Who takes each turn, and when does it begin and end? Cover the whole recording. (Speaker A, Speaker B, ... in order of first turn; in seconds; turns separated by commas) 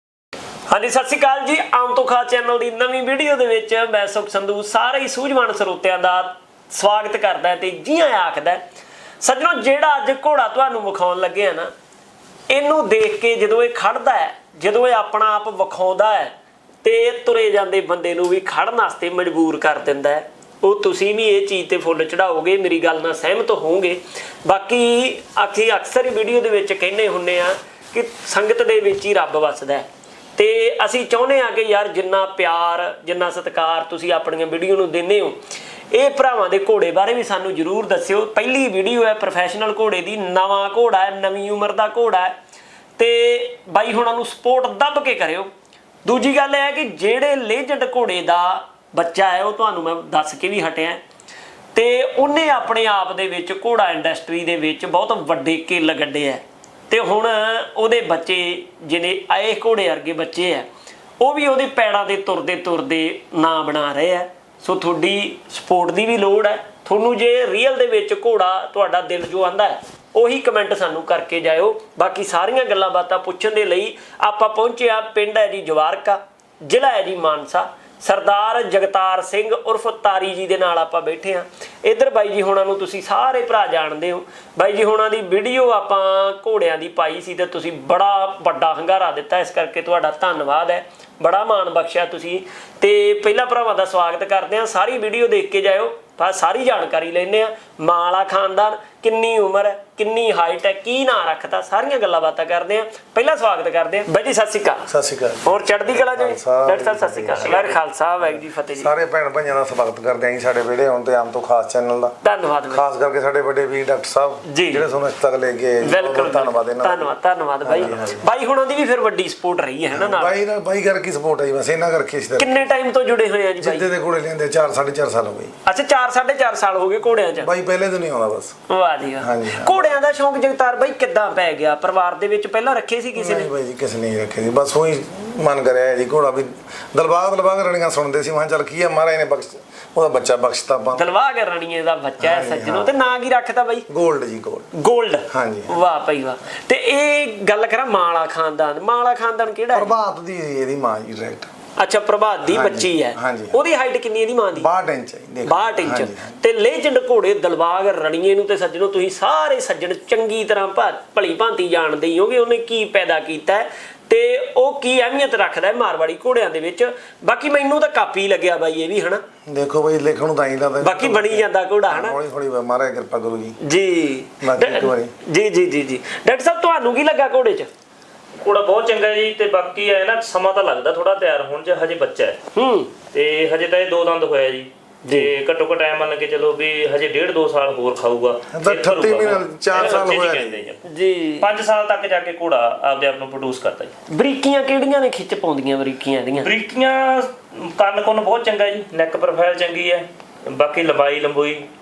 Speaker A: 0.7-8.6, Speaker A: 9.2-11.7, Speaker A: 12.5-35.4, Speaker A: 35.9-42.4, Speaker A: 43.0-45.5, Speaker A: 46.0-51.0, Speaker A: 51.7-60.7, Speaker A: 61.2-104.9, Speaker B: 104.9-107.7, Speaker A: 105.4-108.9, Speaker C: 107.4-107.8, Speaker B: 108.3-112.2, Speaker A: 112.2-112.8, Speaker B: 112.7-117.1, Speaker A: 114.5-114.8, Speaker A: 115.8-120.4, Speaker B: 117.6-118.3, Speaker B: 119.9-122.6, Speaker A: 122.4-123.9, Speaker B: 123.6-125.5, Speaker A: 125.7-127.5, Speaker B: 127.4-128.5, Speaker A: 128.7-133.5, Speaker B: 129.2-130.0, Speaker B: 133.2-141.1, Speaker A: 140.9-143.9, Speaker B: 142.2-142.9, Speaker B: 143.9-144.7, Speaker A: 144.7-149.9, Speaker B: 145.3-145.8, Speaker B: 149.7-151.5, Speaker A: 151.8-154.7, Speaker B: 152.4-153.6, Speaker B: 154.6-156.4, Speaker A: 155.4-169.2, Speaker B: 169.5-173.6, Speaker A: 170.8-172.2, Speaker A: 173.6-177.7, Speaker B: 174.4-175.1, Speaker C: 178.4-182.4, Speaker A: 182.5-182.9, Speaker C: 183.1-190.8, Speaker B: 188.5-190.7, Speaker A: 189.8-190.0, Speaker A: 190.8-191.5, Speaker C: 191.4-193.9, Speaker A: 194.1-196.5, Speaker C: 196.4-201.7